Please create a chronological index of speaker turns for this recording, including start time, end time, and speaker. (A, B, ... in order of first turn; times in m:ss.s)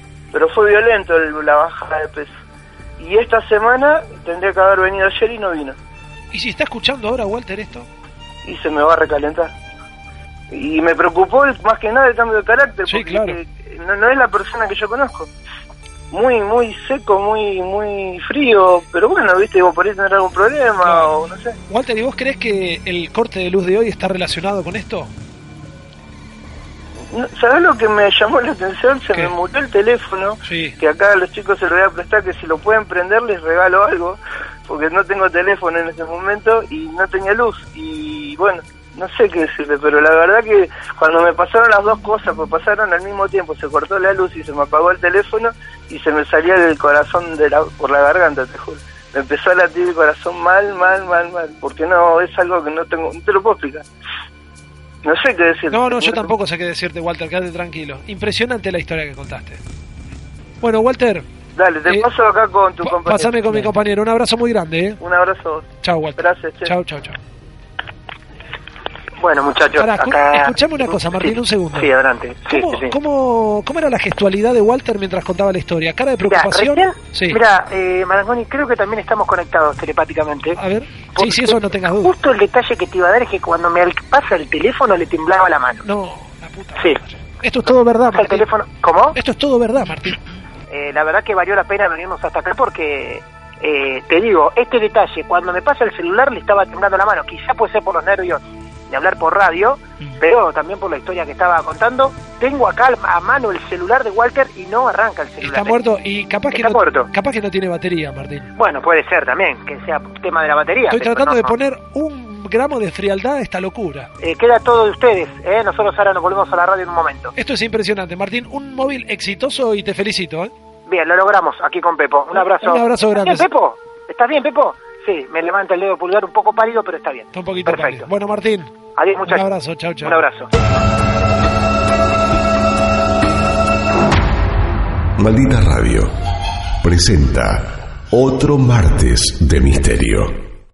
0:00.3-0:02.3 A
0:03.0-0:05.8 A
0:06.3-0:07.9 B
0:08.4-0:09.5 A
0:10.5-0:15.3 A
0:12.9-0:13.4 B
0:16.1-0:21.6 A
0:20.8-0:21.1 B
0:21.7-0:25.1 B
0:27.1-0:53.8 A
0:30.4-0:30.8 B
0:55.0-0:56.3 A
0:55.7-0:59.6 B
1:00.6-1:01.2 B
1:01.6-1:03.7 A
1:02.8-1:05.0 B
1:05.0-1:06.7 A
1:05.8-1:07.2 B
1:09.2-1:12.9 C
1:09.8-1:11.9 B
1:12.5-1:17.4 B
1:16.2-1:20.6 C
1:20.6-1:22.1 B
1:21.1-1:25.8 C
1:25.8-1:28.5 B
1:28.1-1:29.2 C
1:29.1-1:30.2 B
1:30.7-1:45.8 C
1:45.4-1:48.5 B
1:46.5-1:47.1 C
1:48.6-1:51.5 C
1:50.9-1:54.1 B
1:54.2-1:57.3 C
1:57.4-2:00.5 B
2:00.9-2:08.1 C
2:02.4-2:03.5 B
2:07.3-2:08.7 B
2:09.0-2:09.4 C
2:09.2-2:10.2 B
2:10.0-2:10.5 C
2:15.2-2:16.1 D
2:16.8-2:20.4 D